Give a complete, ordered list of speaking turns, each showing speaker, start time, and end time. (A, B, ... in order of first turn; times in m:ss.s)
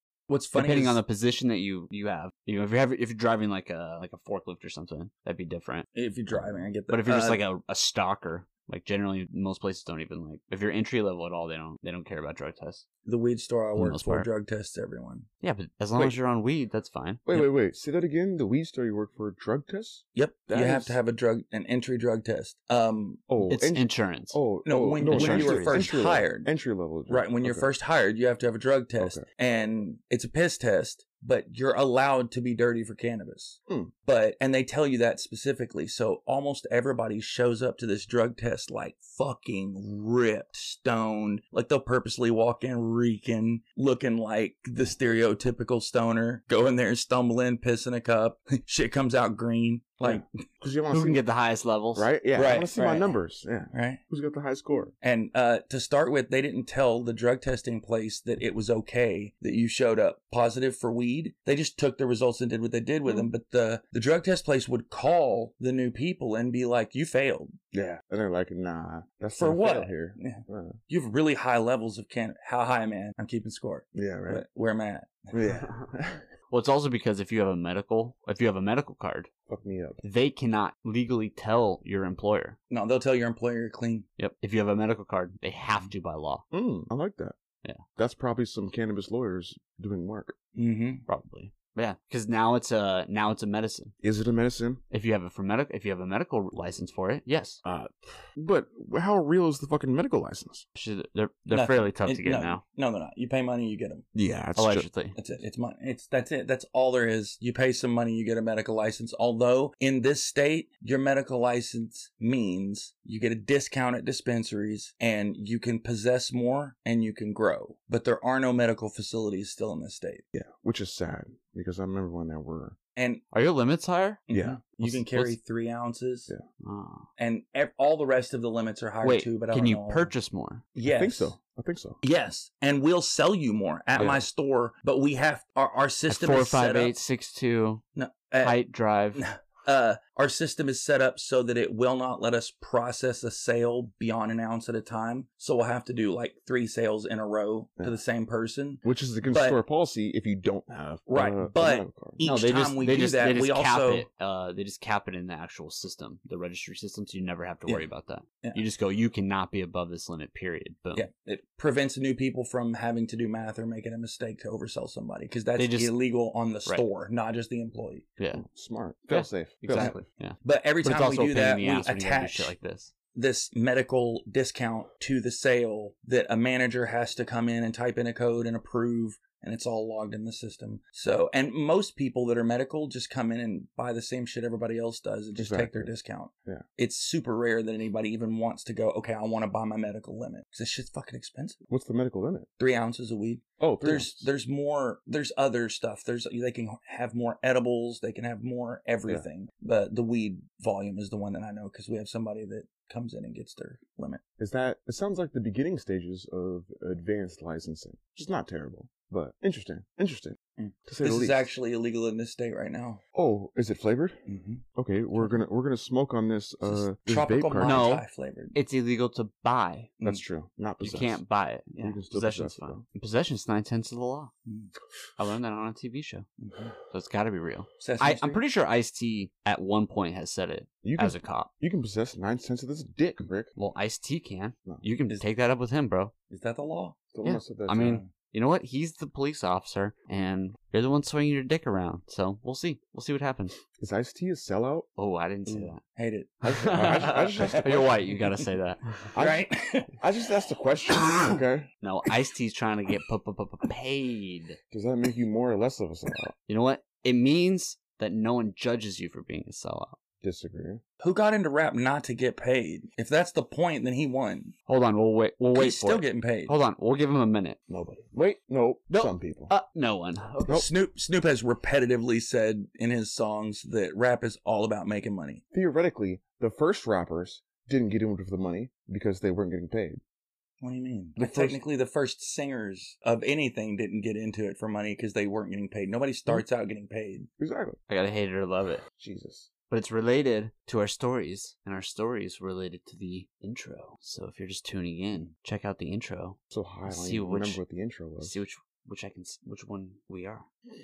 0:00.3-0:01.0 A
0:00.5-0:05.9 B
0:05.9-0:07.4 A
0:06.9-0:12.8 B
0:13.0-0:15.3 A
0:13.8-0:14.3 B
0:15.4-0:17.5 B
0:17.3-0:21.0 C
0:20.1-0:23.2 A
0:23.3-0:27.7 C
0:23.4-0:24.4 B
0:24.6-0:26.5 A
0:25.0-0:25.9 B
0:27.1-0:50.2 A
0:29.0-0:29.2 C
0:33.7-0:33.9 C
0:50.0-0:51.2 C
0:50.9-0:52.1 B
0:51.9-0:54.9 C
0:52.3-0:53.2 A
0:53.7-0:54.0 A
0:55.0-1:07.5 A
1:07.7-1:10.8 C
1:09.4-1:15.4 A
1:13.9-1:14.4 C
1:15.3-1:16.3 C
1:16.5-1:19.3 B
1:19.5-1:20.0 C
1:20.0-1:22.6 B
1:22.7-1:24.1 A
1:24.2-1:26.4 B
1:26.5-1:27.4 C
1:28.0-1:30.3 C
1:30.5-1:31.0 A
1:31.1-1:33.9 B
1:34.0-1:34.8 C
1:34.9-1:37.6 B
1:37.6-1:40.6 C
1:40.8-1:42.6 B
1:41.5-1:44.0 A
1:44.1-1:44.9 C
1:44.6-1:45.2 B
1:45.1-2:00.2 A
2:00.3-2:02.8 C
2:03.0-2:03.2 A
2:03.3-2:04.3 B
2:04.3-2:06.3 A
2:04.3-2:04.6 C
2:04.8-2:05.4 B
2:06.6-2:07.1 B
2:07.2-2:10.1 A
2:09.0-2:10.7 B
2:10.7-2:11.3 A
2:10.8-2:12.0 C
2:12.0-2:16.9 A
2:16.1-2:17.8 B
2:18.0-2:18.6 A
2:18.4-2:19.2 B
2:19.1-2:29.6 A
2:28.8-2:32.2 C
2:31.1-2:34.1 A
2:32.2-2:41.0 B
2:40.9-2:48.1 A
2:45.6-2:45.9 B
2:48.2-2:48.4 B
2:48.3-2:49.9 C
2:49.1-2:52.9 B
2:49.7-2:52.5 A
2:53.1-3:11.6 A
3:05.3-3:05.9 C
3:11.7-3:12.5 C
3:12.6-3:24.2 A
3:13.6-3:14.3 C
3:24.4-3:31.5 C
3:30.6-3:33.0 A
3:33.1-3:34.2 C
3:34.3-3:34.6 A
3:34.8-3:37.9 C
3:35.1-3:35.4 A
3:36.6-3:38.6 A
3:37.6-3:39.9 B
3:40.0-3:41.2 C
3:40.8-3:44.3 B
3:41.8-3:42.8 C
3:44.5-3:44.7 A
3:45.2-3:46.3 B
3:46.4-3:46.7 A
3:46.8-3:51.5 B
3:47.8-3:48.4 A
3:50.8-3:53.5 C
3:53.6-3:56.1 B
3:56.3-3:57.0 A
3:57.1-3:58.0 C
3:57.2-4:03.6 B
4:03.7-4:04.9 C
4:05.0-4:05.8 B
4:05.4-4:05.7 C
4:06.0-4:07.8 A
4:06.4-4:08.2 C
4:06.5-4:08.9 B
4:09.1-4:11.7 C
4:09.2-4:09.9 A
4:11.8-4:14.6 B
4:14.7-4:16.3 C
4:16.5-4:20.0 B
4:20.2-4:20.8 C
4:21.0-4:24.5 A
4:24.7-4:27.6 B
4:25.5-4:26.5 A
4:27.7-4:29.5 C
4:28.9-4:30.6 B
4:30.5-4:35.4 A
4:35.5-4:40.0 C
4:40.6-4:47.3 A
4:41.2-4:41.6 C
4:47.4-4:47.8 C
4:47.9-4:48.8 B
4:48.9-4:49.5 C
4:49.7-4:57.6 B
4:56.5-4:58.4 C
4:58.2-5:00.5 B